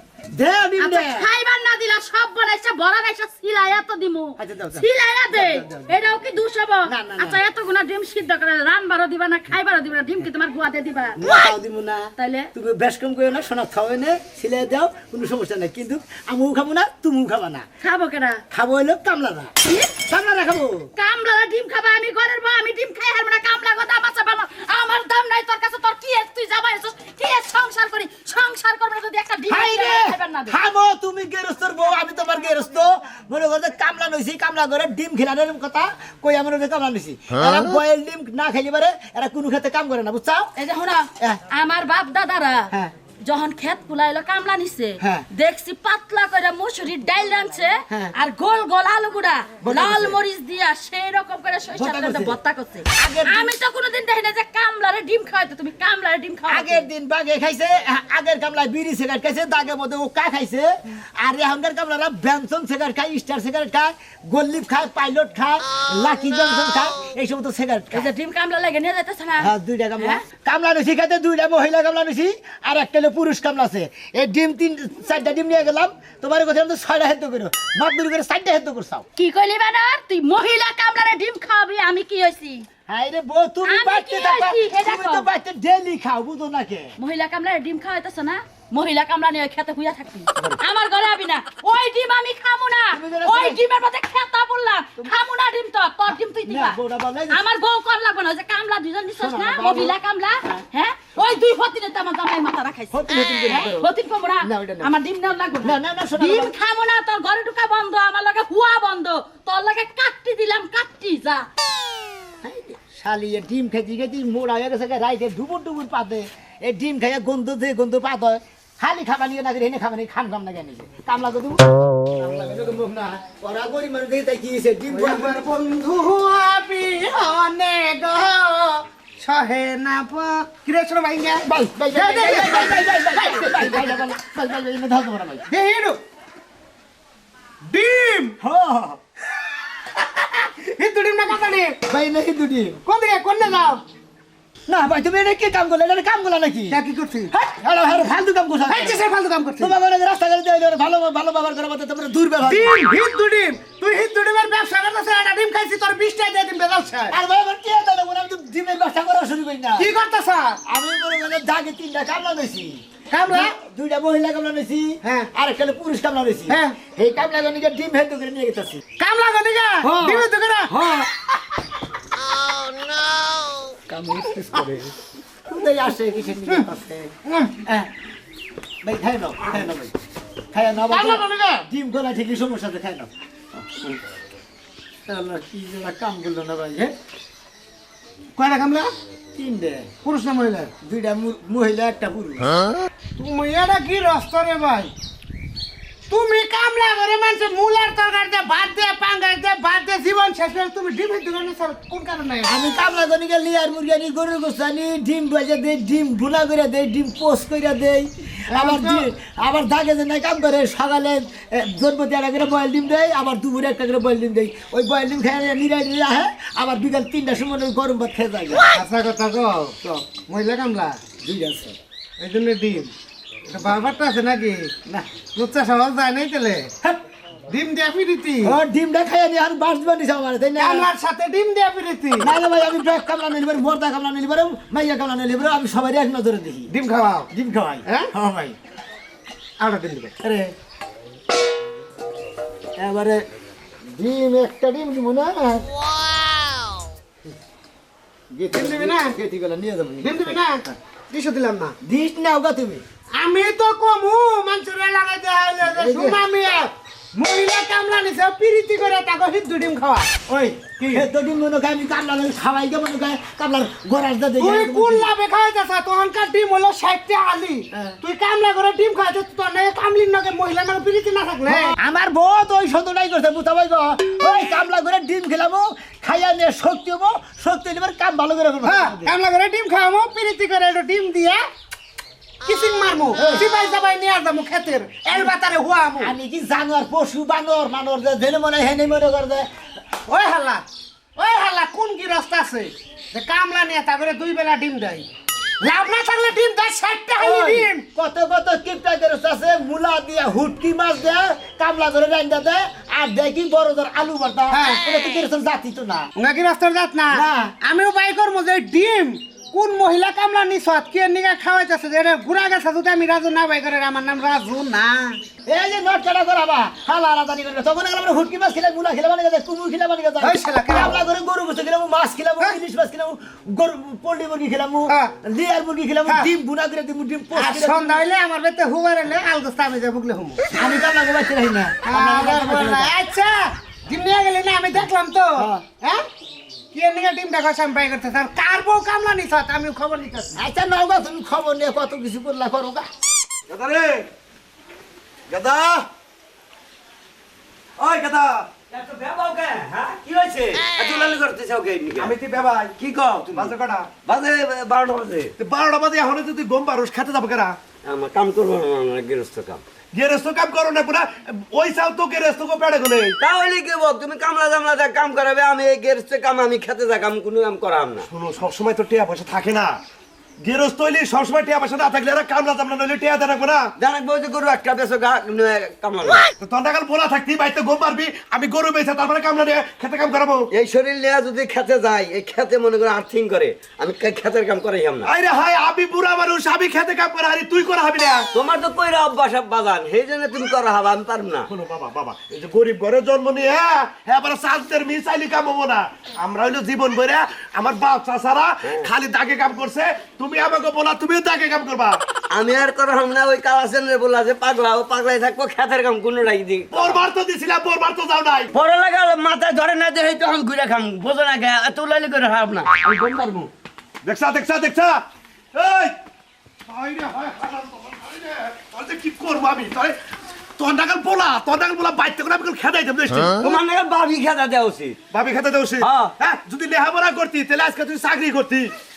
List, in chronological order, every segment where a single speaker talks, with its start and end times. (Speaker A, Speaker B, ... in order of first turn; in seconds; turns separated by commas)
Speaker A: 0.3-1.3, Speaker B: 0.8-11.5, Speaker A: 4.4-5.9, Speaker A: 6.8-7.4, Speaker A: 11.2-17.7, Speaker B: 12.2-12.5, Speaker B: 17.8-18.4, Speaker A: 18.5-20.9, Speaker B: 21.0-30.6, Speaker A: 29.5-40.5, Speaker B: 40.6-42.7, Speaker B: 43.2-56.8, Speaker A: 45.0-45.3, Speaker A: 47.9-48.1, Speaker A: 49.6-50.2, Speaker A: 51.8-52.4, Speaker A: 52.9-53.5, Speaker A: 56.5-68.1, Speaker B: 67.9-70.2, Speaker A: 69.4-79.0, Speaker B: 79.2-82.7, Speaker A: 82.9-87.0, Speaker B: 83.7-85.3, Speaker B: 87.0-96.8, Speaker A: 92.9-93.6, Speaker A: 96.5-97.4, Speaker B: 97.3-111.5, Speaker A: 99.1-100.0, Speaker A: 102.9-104.9, Speaker A: 105.6-106.5, Speaker A: 112.4-125.4, Speaker C: 124.9-133.9, Speaker A: 131.4-135.5, Speaker C: 135.5-136.0, Speaker C: 137.7-138.4, Speaker A: 138.4-139.0, Speaker C: 140.8-141.8, Speaker A: 141.9-142.8, Speaker C: 142.9-143.8, Speaker A: 144.7-146.8, Speaker C: 146.7-147.3, Speaker A: 147.3-149.1, Speaker C: 148.7-149.7, Speaker A: 149.6-152.8, Speaker C: 152.5-157.1, Speaker A: 157.1-159.9, Speaker C: 159.8-160.6, Speaker A: 160.7-168.8, Speaker C: 163.1-163.4, Speaker C: 169.0-170.8, Speaker A: 173.9-174.9, Speaker A: 175.5-177.1, Speaker A: 177.7-177.9, Speaker A: 178.8-179.9, Speaker A: 180.5-183.1, Speaker C: 180.9-181.6, Speaker A: 185.1-186.9, Speaker C: 188.4-188.9, Speaker A: 189.3-189.9, Speaker C: 190.0-190.7, Speaker A: 190.8-192.6, Speaker C: 193.2-194.9, Speaker C: 196.1-202.5, Speaker A: 202.4-218.7, Speaker C: 208.6-209.0, Speaker C: 218.7-221.0, Speaker A: 221.2-221.8, Speaker C: 222.2-222.9, Speaker C: 223.5-224.7, Speaker C: 225.3-226.7, Speaker C: 227.5-228.3, Speaker A: 228.4-230.9, Speaker C: 230.6-232.3, Speaker A: 232.2-236.7, Speaker C: 236.8-237.2, Speaker A: 237.3-238.6, Speaker C: 239.6-240.1, Speaker A: 240.2-240.5, Speaker A: 242.8-243.2, Speaker A: 243.9-245.7, Speaker A: 248.3-250.7, Speaker C: 248.5-249.1, Speaker C: 250.0-251.8, Speaker A: 251.8-252.8, Speaker C: 253.2-260.1, Speaker A: 255.6-256.2, Speaker A: 260.3-265.1, Speaker C: 264.4-271.7, Speaker A: 267.7-268.0, Speaker A: 271.5-279.1, Speaker C: 278.7-281.4, Speaker C: 282.4-286.1, Speaker A: 283.2-283.5, Speaker A: 286.0-289.5, Speaker C: 290.1-290.6, Speaker C: 291.2-295.1, Speaker C: 295.6-297.8, Speaker A: 297.2-306.1, Speaker C: 306.2-315.2, Speaker A: 307.1-307.5, Speaker A: 315.5-328.0, Speaker C: 320.2-321.0, Speaker C: 327.3-330.4, Speaker A: 330.5-332.9, Speaker C: 331.9-336.1, Speaker A: 335.4-335.6, Speaker C: 336.7-340.3, Speaker A: 340.4-342.9, Speaker D: 343.5-344.1, Speaker D: 345.3-345.7, Speaker E: 347.8-352.2, Speaker D: 351.9-352.8, Speaker E: 352.8-355.3, Speaker D: 353.3-353.9, Speaker D: 355.4-357.6, Speaker E: 357.8-359.6, Speaker D: 359.9-363.2, Speaker E: 363.2-368.1, Speaker D: 368.1-369.8, Speaker D: 370.4-373.6, Speaker E: 373.8-376.3, Speaker D: 376.2-380.5, Speaker E: 380.5-385.1, Speaker D: 385.0-388.3, Speaker E: 388.3-391.5, Speaker D: 391.5-402.0, Speaker E: 398.6-398.9, Speaker E: 402.3-407.0, Speaker D: 406.7-408.5, Speaker E: 408.5-413.5, Speaker D: 414.0-415.9, Speaker D: 416.7-420.0, Speaker D: 420.6-423.6, Speaker E: 423.4-425.0, Speaker D: 425.1-428.7, Speaker E: 425.8-426.1